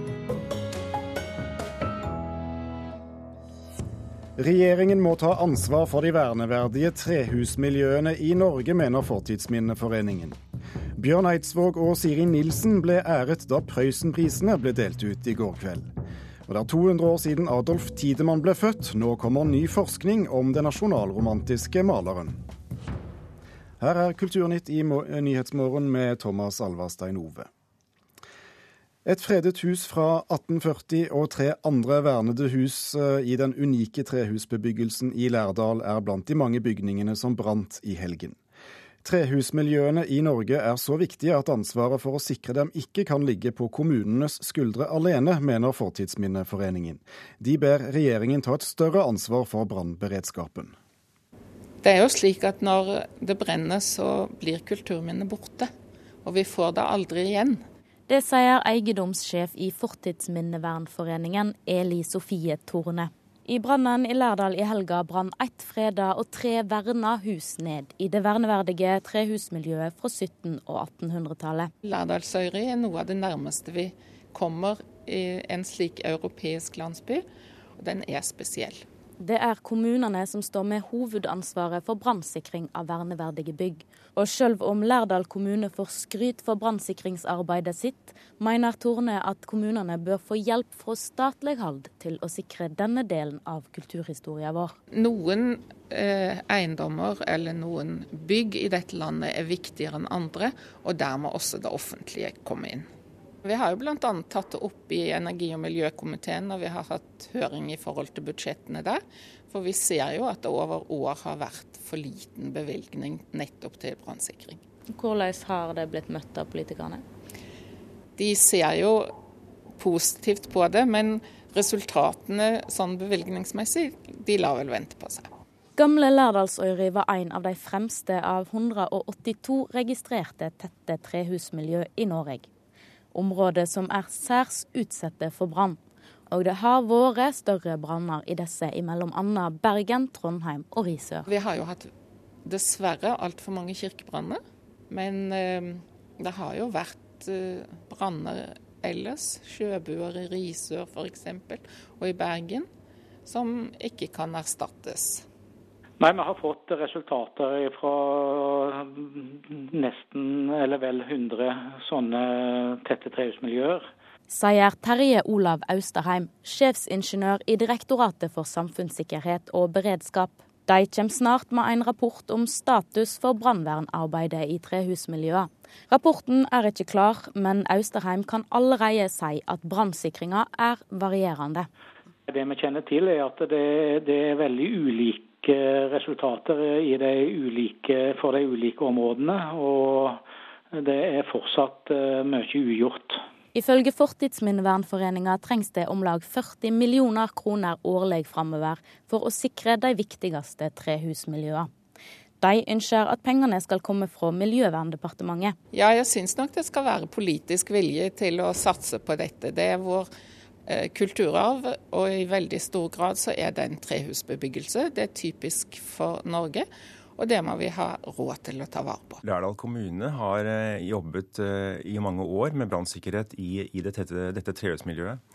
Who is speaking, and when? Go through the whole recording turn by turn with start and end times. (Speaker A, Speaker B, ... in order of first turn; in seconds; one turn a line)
Speaker A: 4.3-10.4
Speaker A: 10.9-15.9
Speaker A: 16.5-22.4
Speaker A: 23.8-27.5
Speaker A: 29.0-38.4
Speaker A: 39.0-50.7
Speaker B: 51.8-55.7
Speaker B: 56.2-57.6
Speaker C: 58.1-71.7
Speaker B: 71.8-77.2
Speaker B: 77.8-78.8
Speaker C: 79.2-94.7
Speaker B: 94.9-102.9
Speaker B: 103.4-114.6
Speaker C: 114.9-117.0
Speaker B: 118.2-119.1
Speaker B: 119.8-125.3
Speaker C: 125.8-132.5
Speaker C: 133.1-135.8
Speaker C: 136.3-141.3
Speaker B: 141.3-141.9
Speaker B: 142.4-152.7
Speaker B: 153.2-155.2
Speaker D: 156.0-163.9
Speaker C: 164.3-181.7
Speaker D: 182.3-193.2
Speaker C: 193.5-201.7
Speaker C: 202.4-205.6
Speaker B: 205.7-210.1
Speaker B: 210.7-219.2
Speaker E: 219.2-225.2